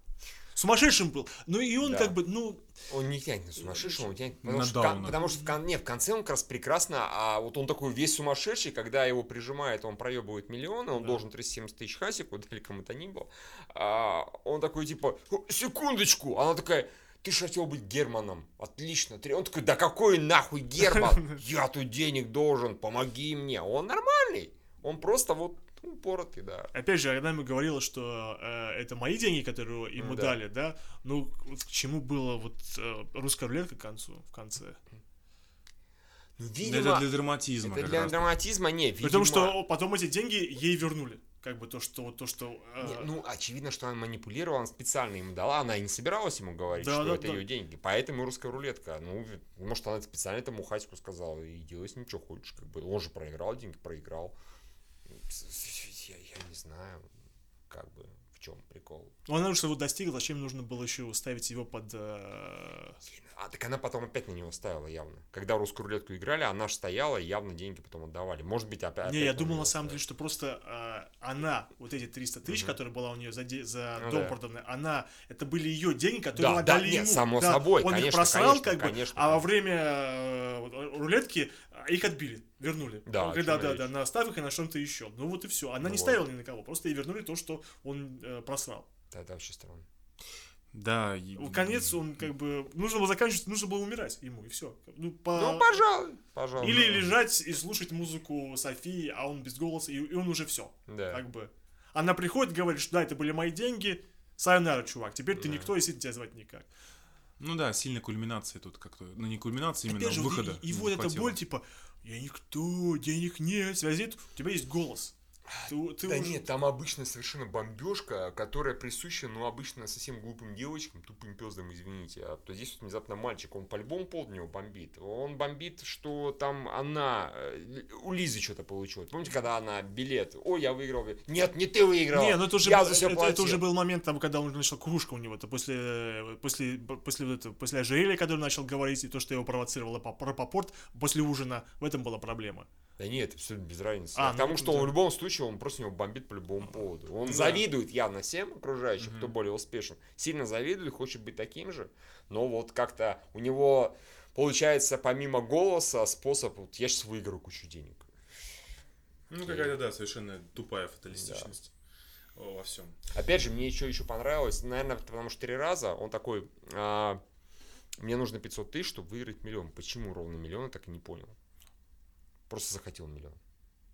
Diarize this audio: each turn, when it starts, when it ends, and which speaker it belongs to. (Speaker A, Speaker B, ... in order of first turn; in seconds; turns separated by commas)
Speaker A: 0.5-2.7, Speaker B: 1.8-2.2, Speaker B: 2.9-26.7, Speaker A: 3.6-4.1, Speaker C: 4.4-5.2, Speaker A: 5.2-5.5, Speaker A: 26.7-34.8, Speaker B: 30.0-30.4, Speaker B: 36.4-39.6, Speaker C: 36.6-38.3, Speaker A: 39.0-43.1, Speaker B: 42.8-54.3, Speaker A: 46.7-47.4, Speaker B: 55.1-57.1, Speaker B: 57.7-59.1, Speaker A: 59.2-63.0, Speaker B: 63.0-70.0, Speaker A: 69.0-88.9, Speaker B: 72.4-72.8, Speaker B: 74.0-74.4, Speaker B: 76.3-79.5, Speaker B: 83.0-83.9, Speaker B: 85.8-86.2, Speaker B: 89.1-89.8, Speaker C: 90.7-92.1, Speaker A: 91.4-95.8, Speaker B: 95.3-97.1, Speaker A: 96.6-106.7, Speaker B: 100.9-101.2, Speaker B: 105.3-105.7, Speaker C: 107.4-111.4, Speaker A: 109.8-115.1, Speaker B: 115.5-133.7, Speaker A: 115.6-116.4, Speaker A: 132.1-142.7, Speaker B: 143.0-158.1, Speaker A: 144.1-144.9, Speaker C: 147.2-147.7, Speaker C: 149.0-149.3, Speaker C: 159.3-161.7, Speaker B: 159.4-159.8, Speaker B: 161.1-161.5, Speaker C: 162.3-162.9, Speaker B: 163.1-167.2, Speaker B: 168.0-171.3, Speaker B: 172.5-173.4